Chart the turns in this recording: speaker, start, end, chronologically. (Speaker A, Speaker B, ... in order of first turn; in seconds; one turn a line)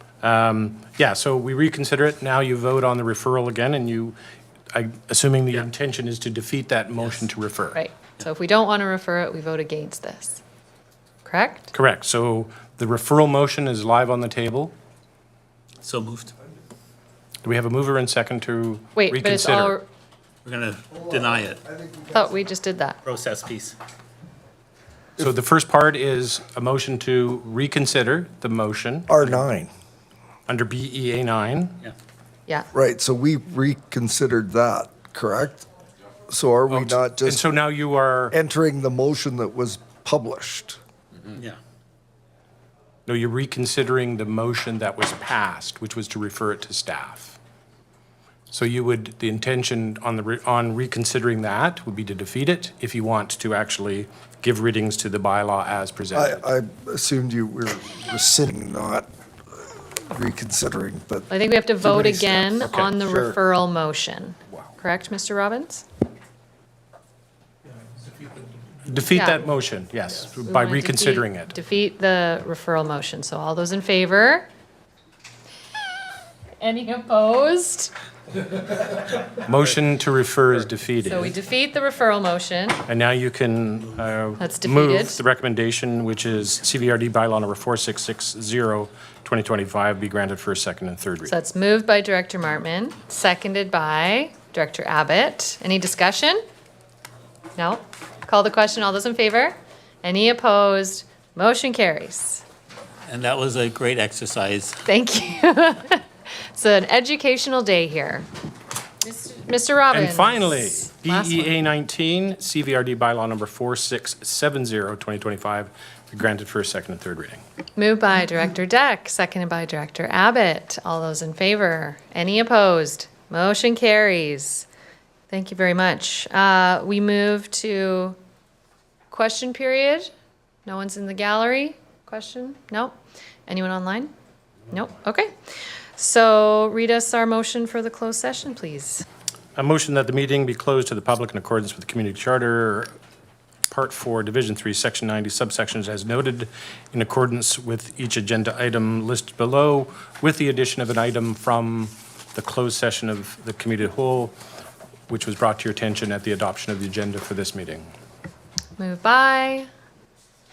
Speaker A: 0.2-4.2
Speaker A: 4.7-7.8
Speaker B: 7.7-10.4
Speaker B: 11.2-11.7
Speaker A: 11.7-14.7
Speaker C: 15.8-16.3
Speaker A: 17.4-19.8
Speaker B: 18.9-19.8
Speaker C: 20.4-21.6
Speaker D: 20.9-22.3
Speaker B: 22.1-23.0
Speaker C: 23.0-23.7
Speaker A: 25.2-29.1
Speaker D: 29.1-29.7
Speaker A: 30.5-31.8
Speaker D: 32.7-35.6
Speaker D: 36.3-37.4
Speaker A: 36.7-38.3
Speaker D: 38.3-40.8
Speaker C: 41.2-41.6
Speaker A: 43.1-47.4
Speaker A: 48.5-56.4
Speaker D: 56.1-63.4
Speaker B: 61.3-65.8
Speaker A: 62.6-62.9
Speaker A: 68.9-71.5
Speaker B: 69.1-69.4
Speaker B: 70.4-74.5
Speaker B: 76.6-77.9
Speaker A: 79.4-81.3
Speaker B: 81.0-82.8
Speaker A: 82.9-91.3
Speaker B: 84.4-85.2
Speaker B: 91.3-96.4
Speaker B: 97.6-102.4
Speaker C: 103.1-104.8
Speaker B: 104.8-108.3
Speaker B: 109.0-111.5
Speaker A: 109.9-117.4
Speaker B: 117.8-124.7
Speaker B: 125.3-128.2
Speaker B: 129.1-130.1
Speaker B: 130.7-132.9
Speaker B: 133.5-134.1
Speaker B: 134.7-135.3
Speaker B: 136.0-139.1
Speaker A: 139.6-142.9
Speaker A: 143.7-154.3
Speaker A: 155.1-157.9
Speaker B: 158.8-159.7